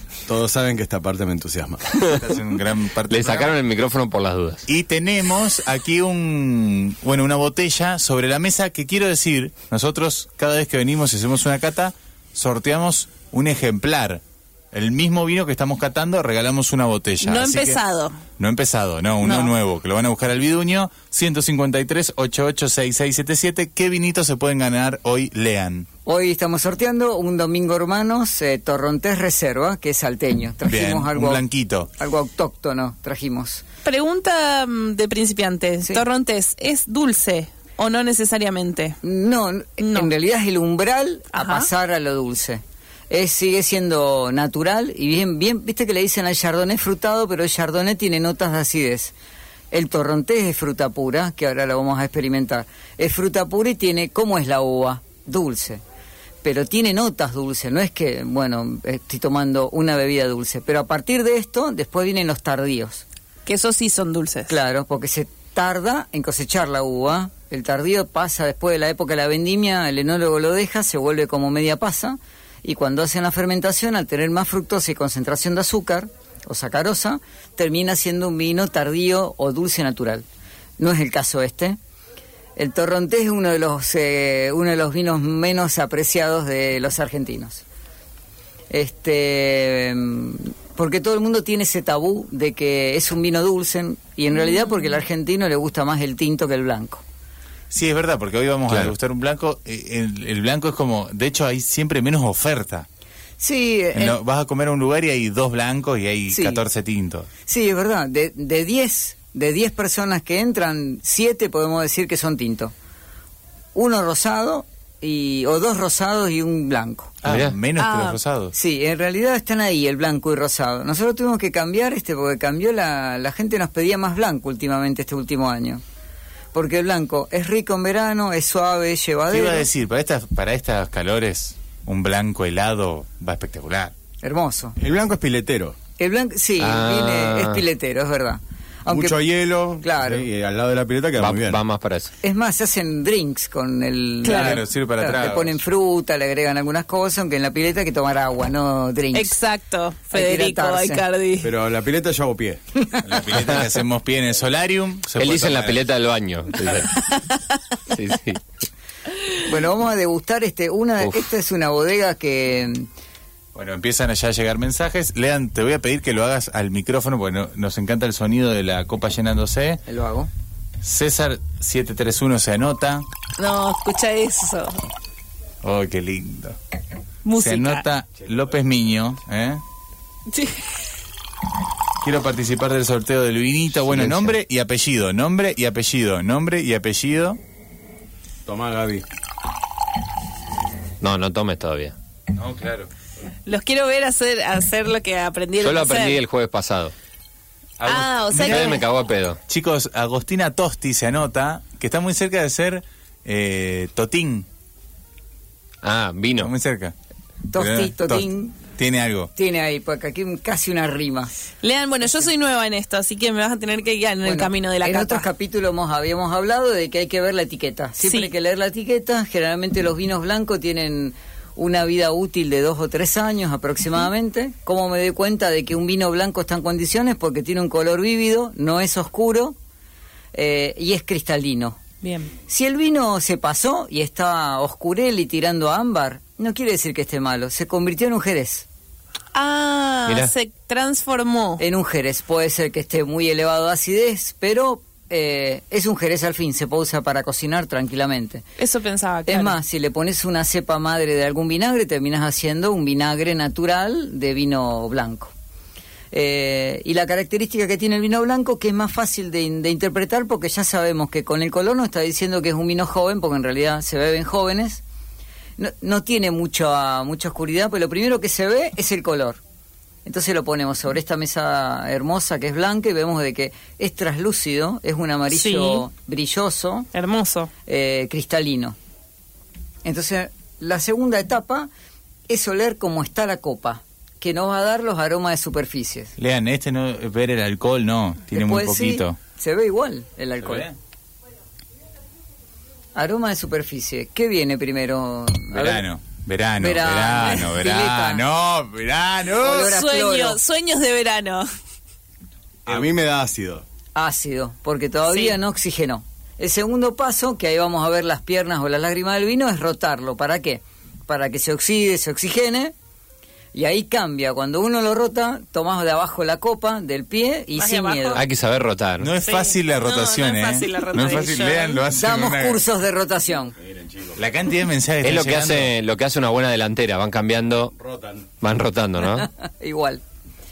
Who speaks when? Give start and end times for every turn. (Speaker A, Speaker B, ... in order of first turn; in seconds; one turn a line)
Speaker A: 0.3-2.1
Speaker B: 2.2-3.5
Speaker C: 3.1-4.7
Speaker B: 4.7-17.8
Speaker D: 17.2-18.2
Speaker B: 18.4-25.9
Speaker D: 19.2-19.5
Speaker E: 26.1-31.4
Speaker B: 30.6-31.9
Speaker E: 32.0-33.6
Speaker D: 33.9-39.0
Speaker E: 39.0-49.1
Speaker D: 39.8-40.1
Speaker D: 41.3-41.7
Speaker E: 49.7-55.8
Speaker E: 56.4-63.0
Speaker D: 63.5-64.5
Speaker E: 64.5-80.2
Speaker E: 80.8-81.8
Speaker E: 82.6-87.6
Speaker E: 88.7-97.0
Speaker B: 97.7-102.9
Speaker C: 98.7-98.9
Speaker E: 103.4-104.2
Speaker B: 103.9-107.3
Speaker E: 106.3-106.6
Speaker E: 107.5-112.7
Speaker E: 113.8-117.2
Speaker B: 117.2-118.5
Speaker C: 117.2-117.6
Speaker D: 117.8-118.2
Speaker E: 118.5-125.8
Speaker E: 126.5-129.7
Speaker B: 129.3-133.9
Speaker E: 134.2-134.8
Speaker A: 134.8-135.8
Speaker E: 136.0-139.2
Speaker C: 136.6-137.6
Speaker A: 138.9-141.6
Speaker E: 139.8-140.3
Speaker C: 141.2-142.1
Speaker E: 142.2-149.3
Speaker D: 144.2-144.6
Speaker B: 144.2-145.6
Speaker D: 149.1-151.5
Speaker E: 150.1-151.0
Speaker A: 151.4-152.6
Speaker B: 153.0-155.8
Speaker C: 153.3-153.6
Speaker C: 155.2-156.9
Speaker C: 157.9-158.4
Speaker E: 159.4-162.9
Speaker B: 163.6-169.8
Speaker E: 169.9-170.3
Speaker B: 170.8-173.1
Speaker D: 173.4-174.9
Speaker B: 175.6-176.6
Speaker D: 177.2-177.8
Speaker B: 177.4-179.6
Speaker D: 180.3-180.6
Speaker B: 182.0-187.4
Speaker C: 183.8-184.4
Speaker A: 188.5-189.0
Speaker C: 191.0-192.0
Speaker B: 192.3-192.9
Speaker D: 193.5-196.2
Speaker C: 195.6-196.9
Speaker B: 197.8-198.8
Speaker D: 197.8-198.9
Speaker C: 198.3-199.4
Speaker B: 199.5-204.5
Speaker C: 205.8-206.5
Speaker B: 206.4-206.9
Speaker E: 207.5-208.6
Speaker B: 207.6-209.3
Speaker E: 209.4-211.3
Speaker D: 211.6-215.3
Speaker E: 212.0-212.3
Speaker E: 214.2-229.6
Speaker D: 218.0-218.3
Speaker E: 230.3-231.8
Speaker D: 232.0-232.3
Speaker E: 232.5-238.7
Speaker D: 239.3-241.6
Speaker C: 240.1-240.3
Speaker E: 241.6-248.4
Speaker D: 248.6-249.6
Speaker E: 249.3-255.3
Speaker E: 256.1-264.8
Speaker E: 265.6-269.4
Speaker E: 270.1-276.9
Speaker D: 275.3-275.8
Speaker D: 276.9-277.5
Speaker E: 277.7-278.8
Speaker E: 279.8-281.7
Speaker E: 282.3-286.1
Speaker B: 286.2-289.2
Speaker E: 288.3-290.7
Speaker B: 290.4-290.7
Speaker E: 293.0-295.9
Speaker B: 295.5-299.7
Speaker E: 296.6-298.2
Speaker E: 299.4-300.4
Speaker D: 299.5-301.5
Speaker A: 302.7-303.6
Speaker E: 303.9-312.7
Speaker D: 305.1-305.4
Speaker E: 313.5-318.2
Speaker D: 317.6-318.2
Speaker C: 318.1-319.1
Speaker B: 319.0-322.6
Speaker D: 319.2-321.8
Speaker E: 321.9-323.6
Speaker A: 323.6-324.2
Speaker B: 324.2-325.7
Speaker C: 325.0-327.7
Speaker A: 327.8-328.3
Speaker C: 328.4-329.3
Speaker E: 329.1-330.0